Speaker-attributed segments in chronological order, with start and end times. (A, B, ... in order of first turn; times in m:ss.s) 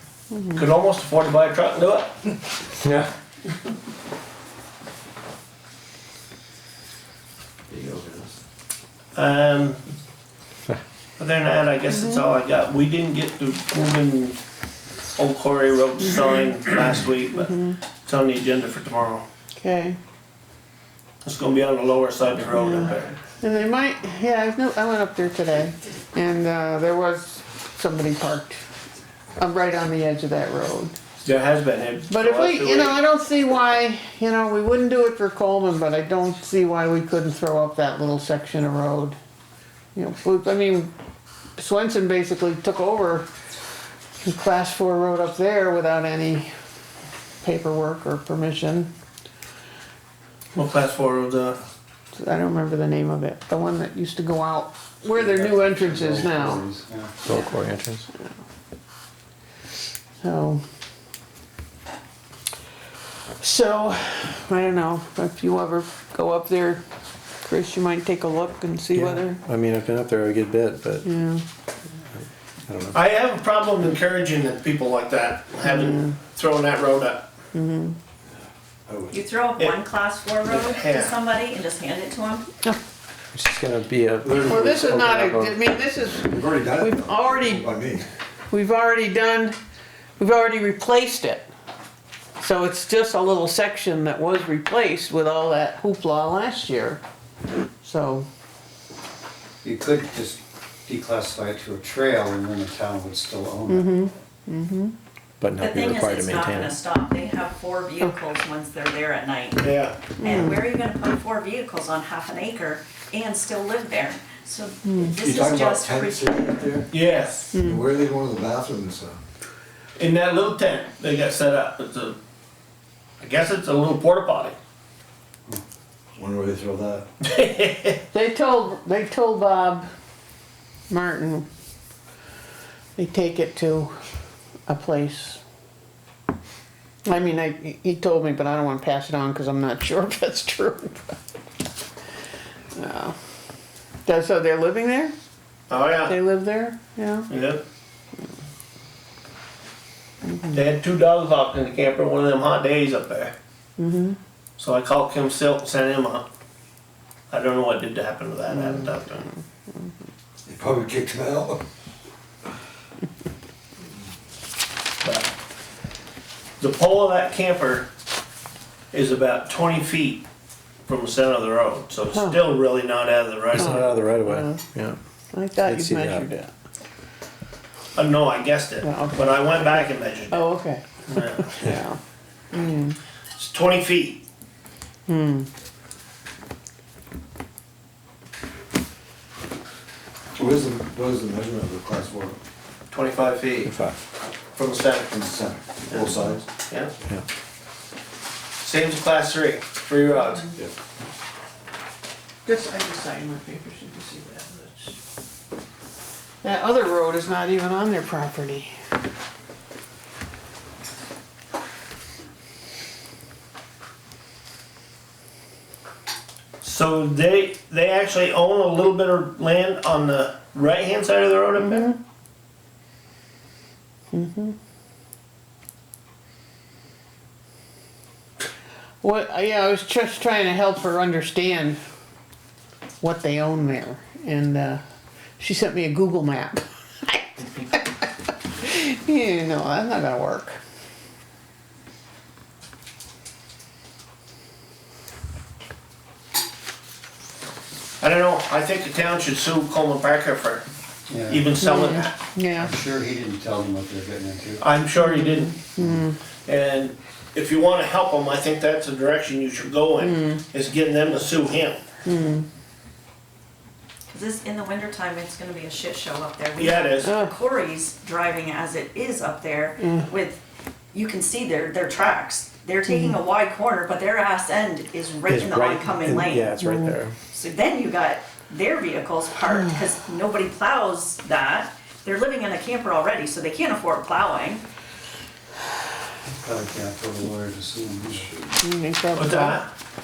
0:00.3-0:00.6 A
0:00.6-0:02.1 B
0:02.8-0:03.1 C
0:07.7-0:08.3 C
0:09.2-0:09.8 B
0:11.2-0:14.4 B
0:11.9-0:12.4 A
0:15.2-0:17.5 B
0:17.4-0:17.8 A
0:18.0-0:19.2 B
0:19.6-0:20.0 A
0:21.2-0:23.2 B
0:22.5-0:28.6 A
0:29.4-0:31.0 A
0:31.2-0:33.0 B
0:32.1-0:39.2 A
0:40.0-0:40.9 A
0:41.6-0:43.3 A
0:44.2-0:46.5 A
0:47.4-0:48.9 A
0:50.5-0:51.6 B
0:52.1-0:56.6 A
0:55.2-0:57.2 D
0:57.2-0:58.1 C
1:00.2-1:00.6 A
1:03.4-1:06.8 A
1:07.4-1:09.4 A
1:08.9-1:11.0 C
1:11.0-1:11.4 A
1:12.7-1:13.0 C
1:12.9-1:17.3 B
1:15.6-1:16.2 A
1:17.5-1:18.0 A
1:19.1-1:22.5 E
1:20.4-1:21.1 B
1:23.3-1:25.6 C
1:24.4-1:27.8 A
1:26.3-1:28.0 F
1:27.6-1:28.0 D
1:28.5-1:29.6 A
1:30.2-1:31.5 A
1:32.4-1:37.0 A
1:37.8-1:38.3 A
1:39.6-1:43.9 D
1:43.7-1:44.9 A
1:45.4-1:46.8 C
1:45.6-1:56.8 E
1:49.6-1:50.2 B
1:50.2-1:50.6 A
1:54.8-1:55.2 A
1:55.3-1:56.6 D
1:55.4-1:56.8 F
1:56.9-1:57.6 B
1:57.5-1:57.8 A
1:57.6-1:59.2 F
2:00.0-2:02.2 B
2:03.2-2:04.6 B
2:06.2-2:07.0 F
2:07.2-2:08.0 B
2:08.1-2:09.9 A
2:10.9-2:11.5 A
2:13.0-2:14.0 A
2:14.7-2:15.4 A
2:17.0-2:21.2 A
2:22.7-2:23.2 A
2:24.0-2:25.1 A
2:25.7-2:26.2 B
2:26.0-2:27.3 A
2:27.3-2:27.6 B
2:30.2-2:30.6 A
2:30.5-2:33.3 B
2:33.8-2:34.2 A
2:34.6-2:36.3 B
2:37.3-2:39.3 B
2:38.5-2:39.4 A
2:40.5-2:41.6 F
2:40.6-2:41.6 D
2:45.0-2:45.3 B
2:46.6-2:47.9 B
2:48.9-2:50.2 B
2:50.9-2:53.8 B
2:52.1-2:52.4 A
2:53.5-2:55.0 C
2:53.6-2:54.6 A
2:55.3-2:56.5 A
2:55.6-2:56.3 C
2:58.0-3:00.5 B
2:58.8-3:02.0 A
3:01.1-3:01.6 B
3:02.5-3:03.0 A
3:03.4-3:04.2 B
3:05.1-3:05.5 A
3:10.4-3:12.4 F
3:11.3-3:12.2 D
3:12.9-3:13.7 B
3:13.6-3:14.0 C
3:14.6-3:15.1 B
3:15.1-3:16.4 F
3:15.9-3:16.9 B
3:18.6-3:20.5 B
3:22.4-3:25.0 A
3:26.4-3:28.8 A
3:36.6-3:41.9 B
3:41.6-3:42.0 A
3:44.1-3:44.6 A
3:49.0-3:51.8 A
3:53.0-3:54.8 A
3:55.4-3:57.8 A
3:58.6-4:00.6 A
4:08.0-4:10.6 B
4:11.1-4:11.5 D
4:11.3-4:12.2 B
4:11.6-4:12.7 A
4:12.6-4:14.6 D
4:14.6-4:15.7 B
4:15.0-4:16.2 A
4:16.5-4:21.8 B
4:20.0-4:20.4 A
4:22.0-4:22.5 A
4:24.1-4:30.4 E
4:26.6-4:27.1 B
4:27.0-4:27.3 A
4:29.8-4:30.1 A
4:30.9-4:36.6 E
4:32.9-4:33.2 A
4:35.2-4:37.2 C
4:36.6-4:37.0 A
4:37.3-4:44.6 E
4:46.4-4:48.3 D
4:48.6-4:49.6 A
4:49.1-4:49.7 B